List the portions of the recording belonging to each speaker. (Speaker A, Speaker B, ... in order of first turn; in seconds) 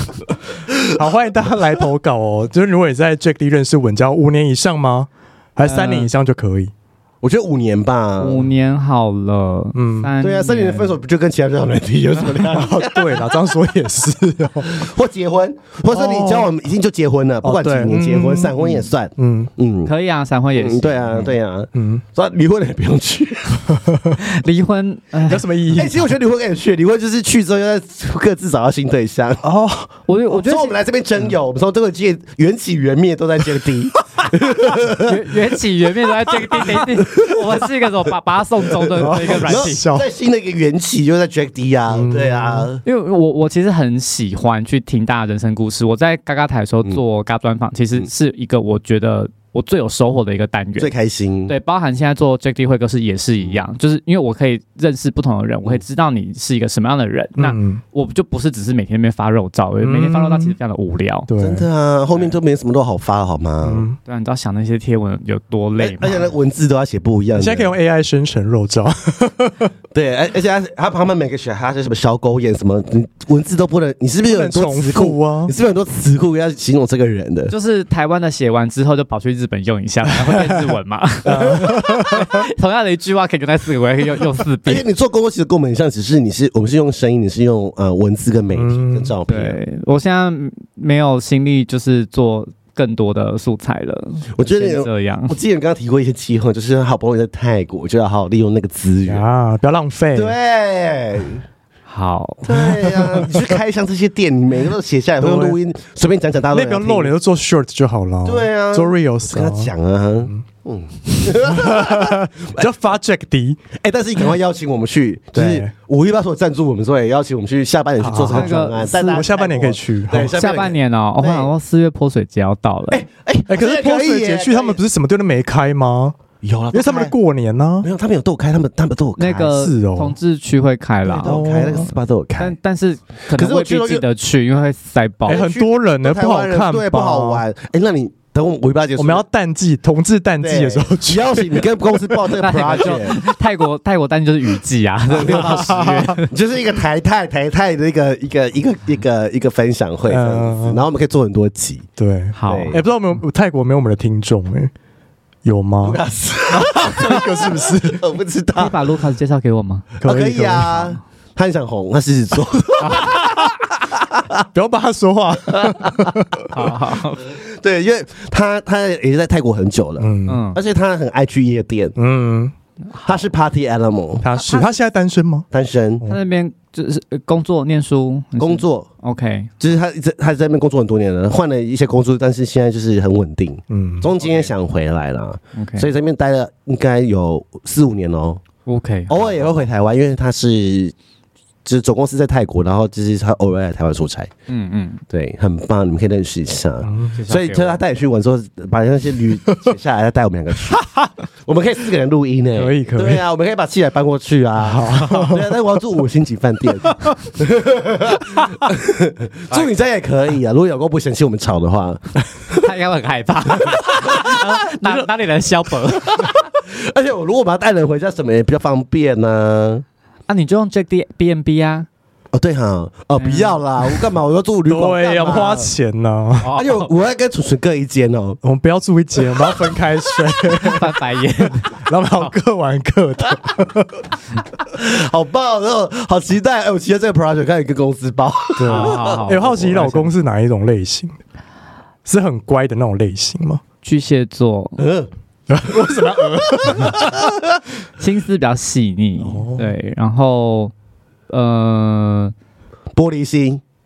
Speaker A: 0.5-1.1, 7.2-8.5, 10.2-13.4, 14.7-19.9, 20.6-23.8, 25.7-29.4, 30.3-35.2, 37.0-37.6, 39.0-42.8, 50.8-51.5, 61.4-63.9, 65.8-67.7, 69.9-77.5, 81.4-81.7, 84.7-89.6, 94.3-99.2, 100.2-101.4, 102.4-107.1, 108.2-112.7, 113.7-121.5, 122.9-124.8, 126.4-127.2, 127.8-129.7, 131.1-132.6, 133.3-134.1, 135.3-139.2, 140.4-143.2, 145.1-151.9, 152.5-152.8, 155.8-158.8, 160.0-164.5, 165.6-166.1, 167.2-171.9, 173.1-174.3, 175.5-176.0, 178.4-178.9, 179.6-188.4, 189.1-190.9, 191.7-194.3, 195.1-200.9, 201.5-212.7, 213.6-214.5, 215.9-219.8, 222.3-225.7, 226.6-228.4, 229.4-229.8, 234.7-239.7, 244.8-245.1, 246.3-247.2, 252.9-253.6
Speaker B: 0.9-6.7, 9.8-10.1, 12.4-14.8, 15.9-16.6, 17.4-19.5, 21.8-22.0, 23.7-24.2, 25.3-26.0, 29.4-29.9, 39.0-40.1, 41.9-42.7, 57.4-57.8, 59.8-60.5, 61.3-61.7, 63.6-64.0, 67.4-69.7, 74.2-75.5, 80.3-80.5, 81.2-82.4, 88.5-89.1, 99.1-100.3, 102.5-103.5, 105.2-105.6, 106.5-109.7, 111.1-113.6, 115.3-115.7, 118.0-120.3, 123.5-126.2, 126.7-127.9, 129.5-130.2, 131.2-132.0, 135.3-137.4, 139.0-142.2, 145.4-146.2, 150.1-150.8, 152.0-154.7, 155.4-158.0, 160.0-161.0, 164.5-166.5, 170.0-170.5, 172.0-172.5, 174.2-175.5, 183.7-184.1, 196.8-197.2, 199.5-199.7, 202.6-203.2, 204.6-205.5, 206.9-207.2, 224.7-226.5, 228.4-230.9, 231.7-234.0, 238.6-241.2, 242.1-243.6, 245.5-247.3, 249.2-249.7
Speaker C: 5.6-6.1, 8.2-11.0, 19.9-21.3, 24.2-25.4, 30.1-30.7, 35.0-39.8, 42.8-50.9, 51.5-61.3, 64.0-66.3, 77.5-84.8, 89.3-95.3, 101.9-102.6, 118.3-119.0, 120.3-123.0, 129.2-131.4, 132.4-135.4, 142.4-146.3, 152.3-152.8, 158.6-159.9, 166.5-167.3, 170.3-170.6, 172.9-173.2, 174.3-174.7, 176.1-179.5, 185.6-185.9, 188.7-189.3, 194.5-195.0, 197.2-197.8, 212.5-216.4, 220.3-221.9, 223.2-223.6, 226.4-226.9, 230.5-232.3, 238.7-240.1, 243.8-244.8, 248.0-250.7, 251.3-252.3